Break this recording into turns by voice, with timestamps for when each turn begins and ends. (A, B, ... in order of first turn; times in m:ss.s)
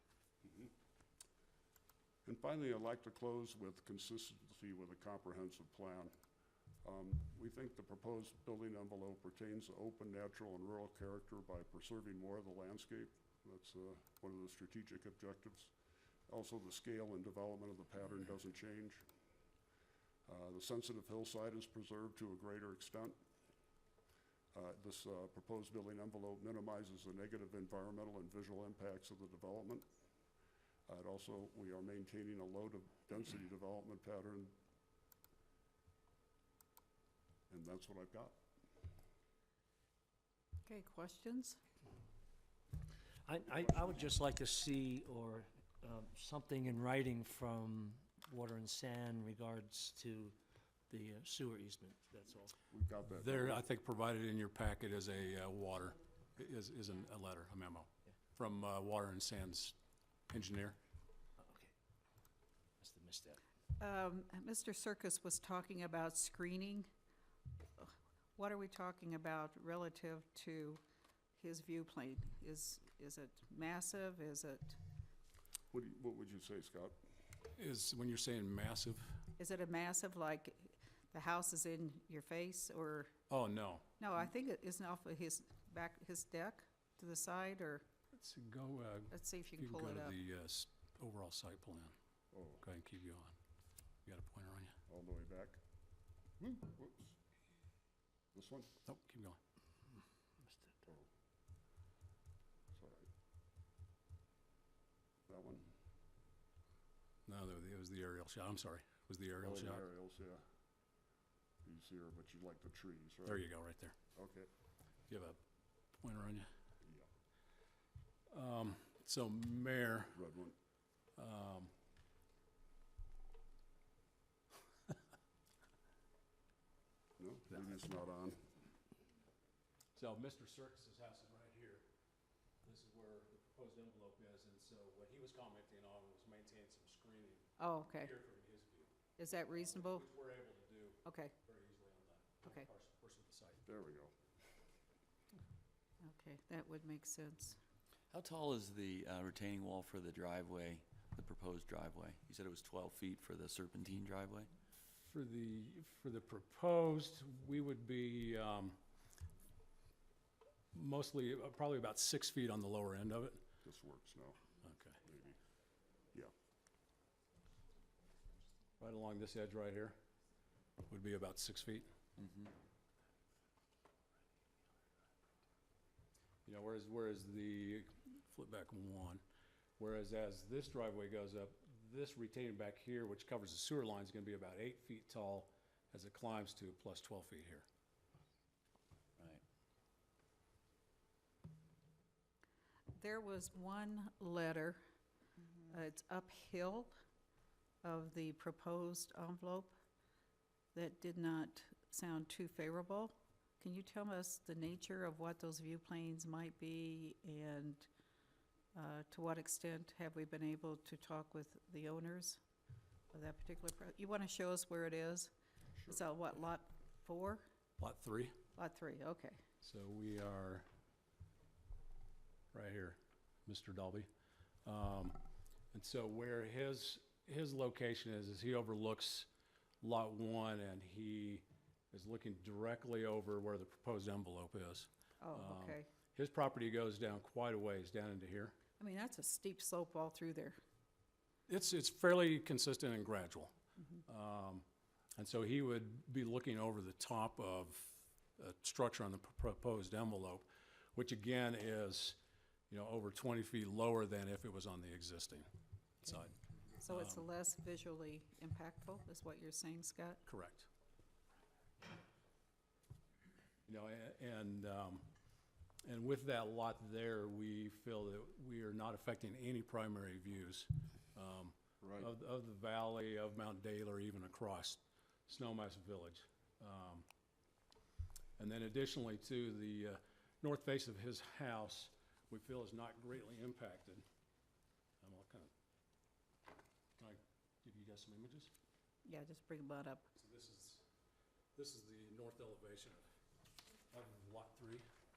0:02.3-0:06.1 A
0:06.8-0:15.7 A
0:16.3-0:19.0 A
0:20.3-0:23.2 A
0:24.5-0:29.9 A
0:30.9-0:34.5 A
0:37.5-0:38.4 A
0:40.7-0:41.6 B
0:43.3-0:50.4 C
0:50.9-0:52.6 C
0:52.7-0:53.6 A
0:53.1-0:59.8 D
1:00.3-1:00.8 D
1:01.4-1:01.7 C
1:02.8-1:03.4 C
1:03.8-1:06.9 B
1:07.8-1:10.8 B
1:11.4-1:14.8 B
1:15.7-1:17.0 A
1:17.6-1:19.2 D
1:19.4-1:23.1 B
1:23.3-1:23.9 D
1:24.0-1:27.9 B
1:28.1-1:32.0 D
1:29.1-1:30.2 B
1:32.3-1:32.6 A
1:32.6-1:33.4 D
1:34.0-1:34.8 D
1:34.9-1:35.6 A
1:36.4-1:37.2 A
1:38.3-1:38.7 A
1:38.8-1:39.4 D
1:40.4-1:40.7 C
1:42.8-1:43.1 A
1:45.3-1:45.7 A
1:47.3-1:49.8 D
1:49.4-1:50.4 A
1:51.6-1:53.4 A
1:53.2-1:54.0 D
1:54.2-1:54.5 A
1:55.1-1:55.4 D
1:56.0-1:56.5 D
1:56.8-1:57.1 A
1:58.3-2:00.2 D
2:00.1-2:00.6 A
2:01.2-2:01.7 D
2:07.2-2:08.5 A
2:10.0-2:11.8 D
2:12.6-2:18.9 D
2:17.6-2:18.1 B
2:19.2-2:20.1 B
2:19.5-2:23.6 D
2:21.0-2:21.3 B
2:23.6-2:24.1 A
2:26.0-2:27.6 B
2:28.1-2:34.5 E
2:34.9-2:38.8 D
2:40.7-2:43.4 D
2:43.6-2:44.4 A
2:44.6-2:45.0 D
2:45.0-2:45.4 A
2:48.8-2:50.0 D
2:50.9-2:51.9 D
2:52.2-2:52.5 E
2:56.4-2:59.2 D
2:59.8-3:07.7 D
3:09.2-3:09.4 E
3:13.0-3:14.8 B
3:15.7-3:17.0 B
3:17.8-3:19.7 B
3:20.7-3:27.9 B
3:28.7-3:32.4 B
3:33.1-3:35.3 B
3:35.9-3:37.4 B
3:37.8-3:38.4 D
3:38.6-3:39.4 B
3:39.6-3:40.7 D
3:42.5-3:44.1 D
3:44.6-3:45.2 D
3:45.7-3:49.3 D
3:49.8-3:58.6 D
3:55.2-3:55.9 B
3:58.8-4:00.6 B
4:01.5-4:03.5 D
4:04.0-4:04.6 D
4:05.2-4:12.2 D
4:12.7-4:15.5 D
4:16.0-4:17.3 D
4:16.8-4:20.2 B
4:20.3-4:20.7 D
4:23.7-4:25.1 D
4:25.8-4:37.1 D
4:31.8-4:32.1 A
4:38.4-4:44.0 D
4:45.0-4:45.5 D
4:47.0-4:48.5 D
4:49.0-4:50.1 B
4:50.2-4:50.8 D
4:51.6-4:53.0 D
4:53.9-4:54.8 D